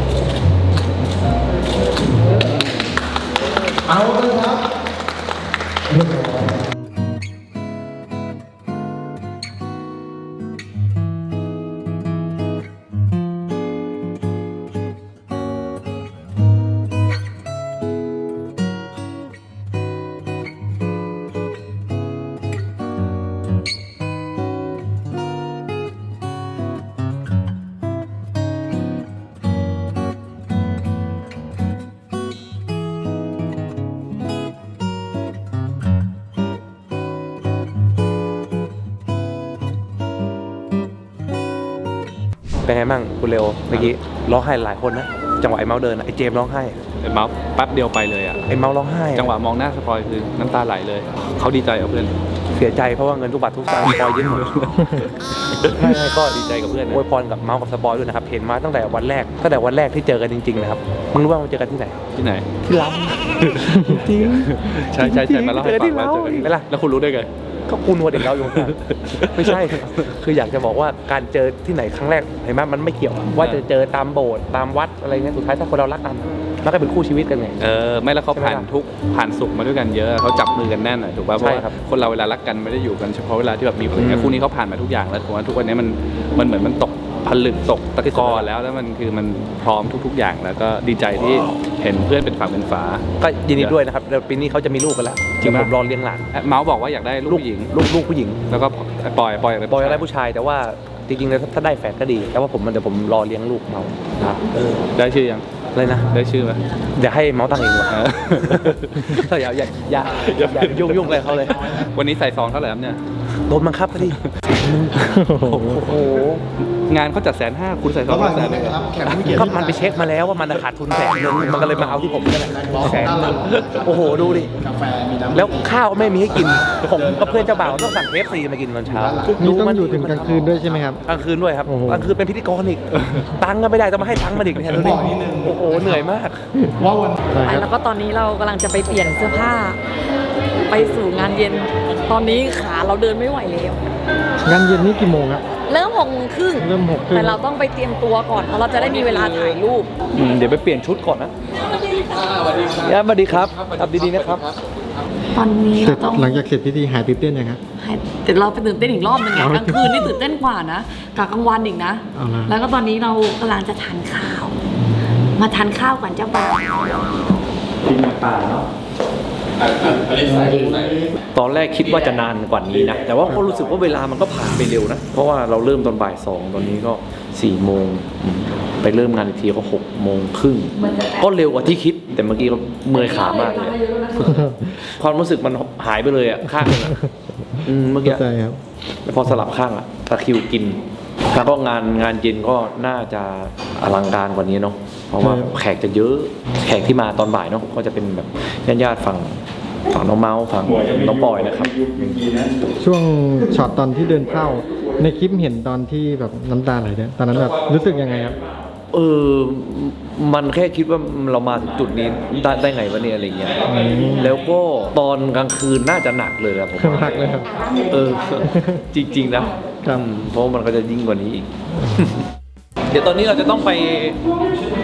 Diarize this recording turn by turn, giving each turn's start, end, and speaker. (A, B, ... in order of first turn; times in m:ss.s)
0:02.1-0:02.8 A
0:03.8-0:04.6 A
0:05.9-0:06.5 A
0:42.6-0:46.8 B
0:47.0-0:48.4 C
0:48.5-0:49.3 B
0:49.1-0:52.2 C
0:52.5-0:54.7 B
0:54.2-0:57.0 C
0:55.6-1:02.0 B
1:02.2-1:02.5 C
1:02.6-1:06.6 B
1:03.4-1:07.3 C
1:07.7-1:17.7 B
1:08.2-1:10.1 C
1:13.3-1:13.6 C
1:17.6-1:33.0 C
1:18.3-1:18.7 B
1:21.4-1:21.7 B
1:24.0-1:24.4 B
1:28.0-1:28.5 B
1:33.2-1:36.2 B
1:35.4-1:35.7 C
1:36.3-1:37.7 C
1:37.3-1:38.4 B
1:38.5-1:40.0 C
1:39.7-1:44.8 B
1:44.9-1:45.4 C
1:45.8-1:46.1 B
1:46.1-1:46.6 C
1:47.0-1:51.6 B
1:47.9-1:49.3 C
1:50.1-1:53.0 C
1:51.6-1:51.9 A
1:53.5-1:56.4 B
1:54.0-1:54.2 C
1:55.1-1:55.8 D
1:55.4-1:56.2 C
1:56.9-1:59.4 C
1:58.1-2:00.2 A
1:59.1-2:04.5 B
2:01.2-2:08.0 A
2:05.3-2:16.4 B
2:08.9-2:09.4 A
2:09.3-2:11.0 D
2:11.7-2:12.2 D
2:14.7-2:16.0 A
2:16.8-2:17.2 A
2:17.3-2:17.7 D
2:17.4-2:19.8 E
2:20.6-2:23.9 E
2:24.4-2:25.4 D
2:25.7-2:29.9 E
2:26.6-2:27.4 D
2:30.2-2:31.3 B
2:31.9-2:32.4 E
2:32.7-2:34.5 B
2:35.3-2:36.4 E
2:35.8-2:37.6 D
2:37.8-2:44.6 E
2:39.3-2:40.1 D
2:42.2-2:42.6 D
2:45.2-2:47.3 E
2:51.2-3:03.8 B
3:00.8-3:01.3 E
3:02.9-3:04.5 E
3:04.3-3:04.5 D
3:04.8-3:07.0 B
3:07.5-3:08.6 D
3:07.6-3:08.2 B
3:09.0-3:22.3 B
3:15.2-3:15.5 D
3:22.8-3:28.4 D
3:28.9-3:37.3 B
3:33.7-3:34.4 D
3:36.8-3:37.6 D
3:37.9-3:42.2 B
3:38.4-3:38.8 D
3:42.9-3:44.2 B